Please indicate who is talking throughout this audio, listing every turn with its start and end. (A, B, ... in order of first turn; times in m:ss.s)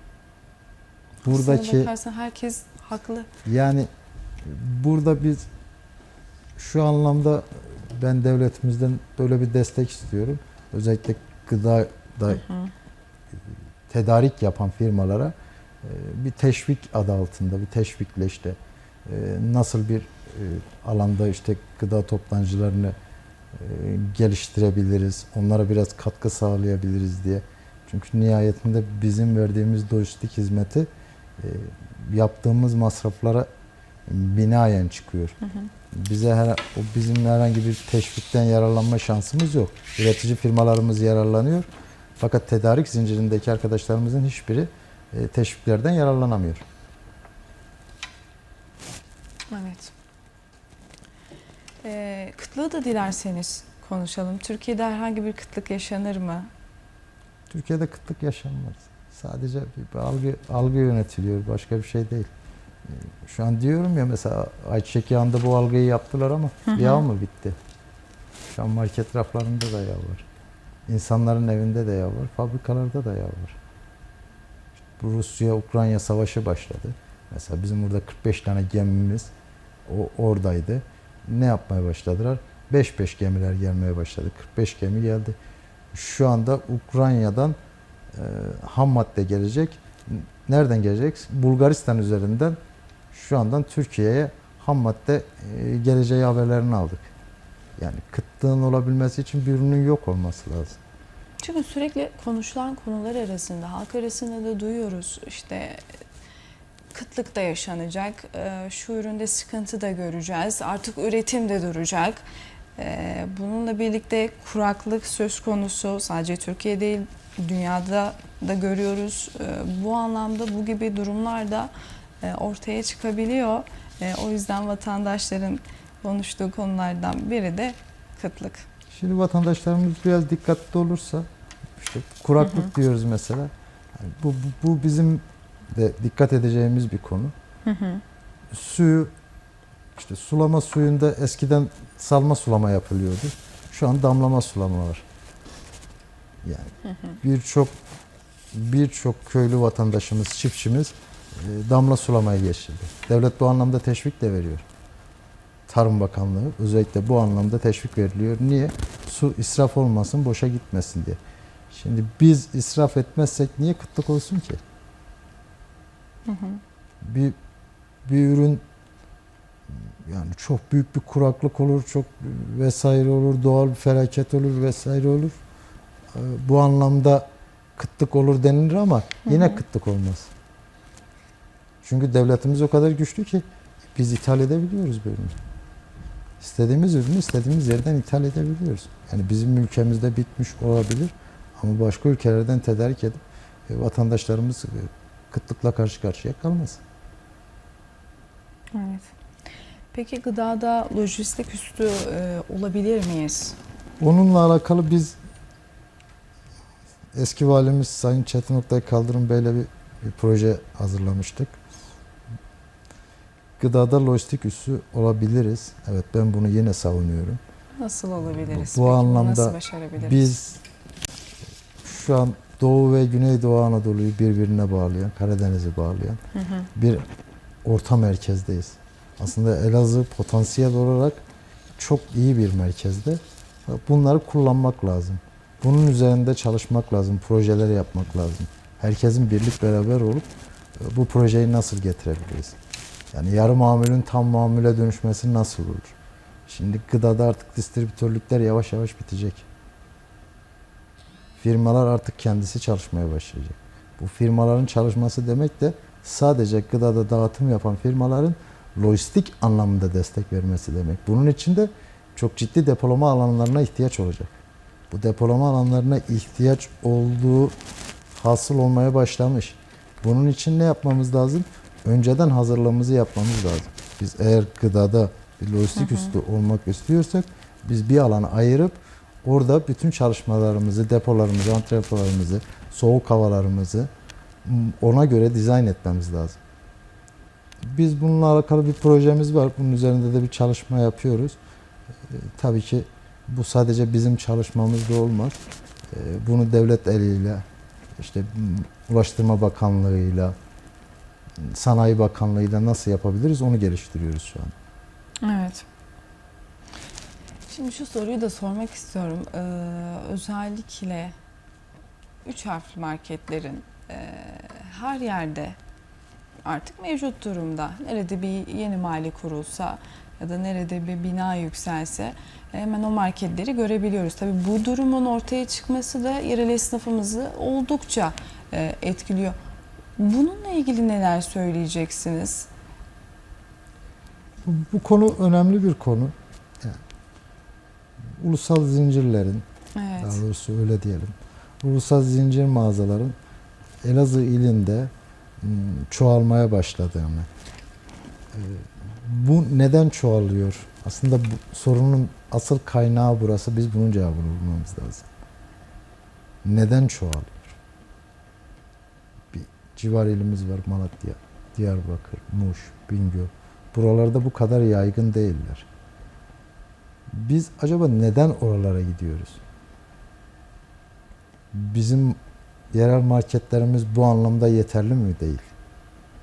0:01.2-0:01.9 A
0:01.2-0:03.3 B
0:03.4-0:03.9 A
0:04.4-0:05.5 A
0:06.6-0:12.4 A
0:12.3-0:12.7 B
0:13.9-0:23.0 A
0:23.5-0:33.5 A
0:34.1-0:35.4 A
0:35.4-0:35.7 B
0:35.9-0:41.7 A
0:42.2-0:46.6 A
0:49.5-0:49.9 B
0:51.8-0:56.5 B
0:57.5-1:02.3 A
1:02.8-1:07.6 A
1:06.7-1:07.0 B
1:08.5-1:10.3 A
1:10.9-1:13.6 A
1:15.0-1:19.3 A
1:19.9-1:25.4 A
1:25.9-1:27.6 A
1:28.1-1:32.6 A
1:33.1-1:37.1 A
1:37.8-1:40.8 A
1:41.4-1:45.8 B
1:46.9-1:52.2 B
1:52.8-2:08.7 B
2:08.9-2:17.3 A
2:12.4-2:12.7 B
2:17.6-2:18.0 B
2:18.5-2:19.1 A
2:20.0-2:25.0 A
2:26.4-2:27.7 A
2:26.9-2:27.2 B
2:28.5-2:34.6 A
2:35.7-2:41.2 A
2:41.7-2:44.6 A
2:46.3-2:46.6 B
2:47.0-2:47.4 A
2:48.0-2:48.6 A
2:49.7-2:55.4 A
2:56.1-3:00.3 A
2:59.3-2:59.6 B
3:01.8-3:05.4 A
3:06.4-3:16.8 A
3:18.7-3:19.1 B
3:19.9-3:23.6 B
3:24.0-3:25.2 A
3:27.1-3:31.6 A
3:33.6-3:37.4 A
3:37.8-3:40.3 B
3:38.2-3:40.6 A
3:41.8-3:46.2 A
3:46.3-3:46.7 B
3:46.8-3:47.0 A
3:47.6-3:51.2 A
3:51.8-4:02.6 A
4:03.1-4:06.0 A
4:06.5-4:09.5 A
4:11.4-4:24.4 A
4:24.9-4:27.6 A
4:28.1-4:43.9 A
4:35.8-4:36.1 B
4:44.4-4:46.4 A
4:47.6-4:51.4 A
4:52.1-4:55.4 A
4:55.9-4:57.4 A
4:58.0-5:00.4 A
5:01.4-5:04.6 A
5:05.2-5:05.6 B
5:07.5-5:11.2 B
5:12.2-5:15.6 B
5:16.4-5:29.4 B
5:30.0-5:32.5 B
5:34.4-5:36.8 A
5:38.0-5:39.4 A
5:39.8-5:40.2 B
5:40.0-5:43.2 A
5:43.8-5:47.3 A
5:48.3-5:55.1 A
5:56.4-5:57.6 A
5:59.3-6:05.7 A
6:07.1-6:09.4 A
6:11.5-6:12.2 A
6:12.7-6:15.5 A